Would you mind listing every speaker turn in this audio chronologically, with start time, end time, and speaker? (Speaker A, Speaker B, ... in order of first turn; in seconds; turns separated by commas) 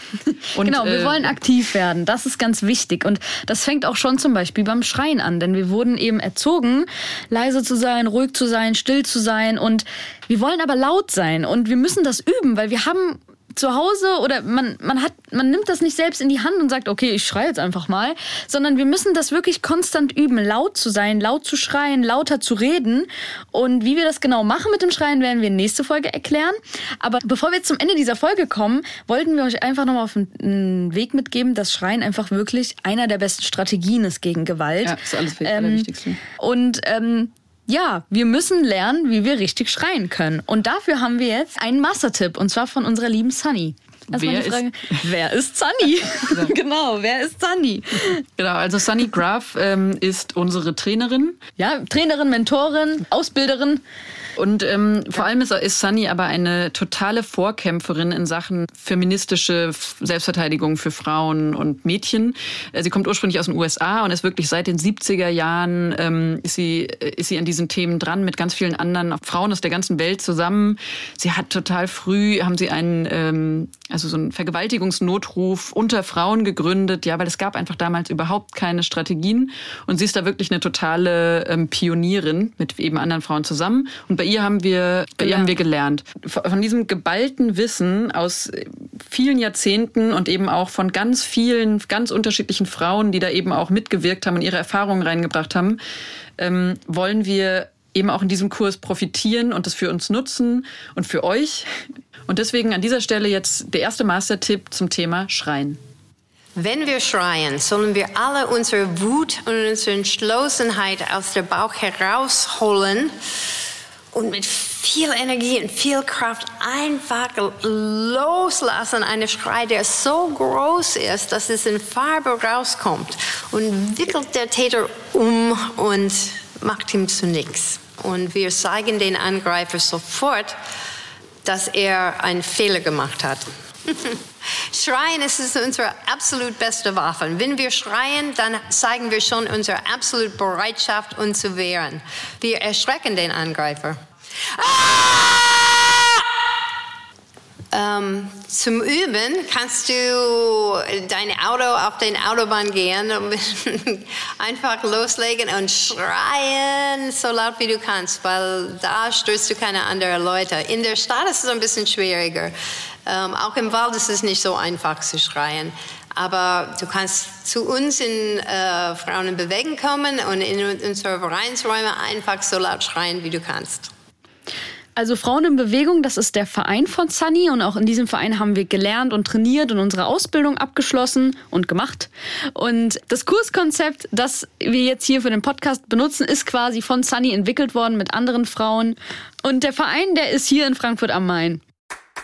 Speaker A: 0.5-1.4, Speaker B: 0.6-48.2, Speaker A: 34.8-36.2, Speaker A: 44.1-45.0, Speaker A: 48.4-51.4, Speaker B: 51.6-53.8, Speaker A: 54.4-95.8, Speaker B: 85.2-85.5, Speaker A: 96.4-101.7, Speaker A: 102.3-105.8, Speaker C: 106.5-113.1, Speaker C: 114.1-130.6, Speaker C: 131.4-144.0, Speaker C: 144.5-146.3, Speaker C: 147.7-162.5, Speaker C: 163.1-173.9, Speaker B: 174.9-191.6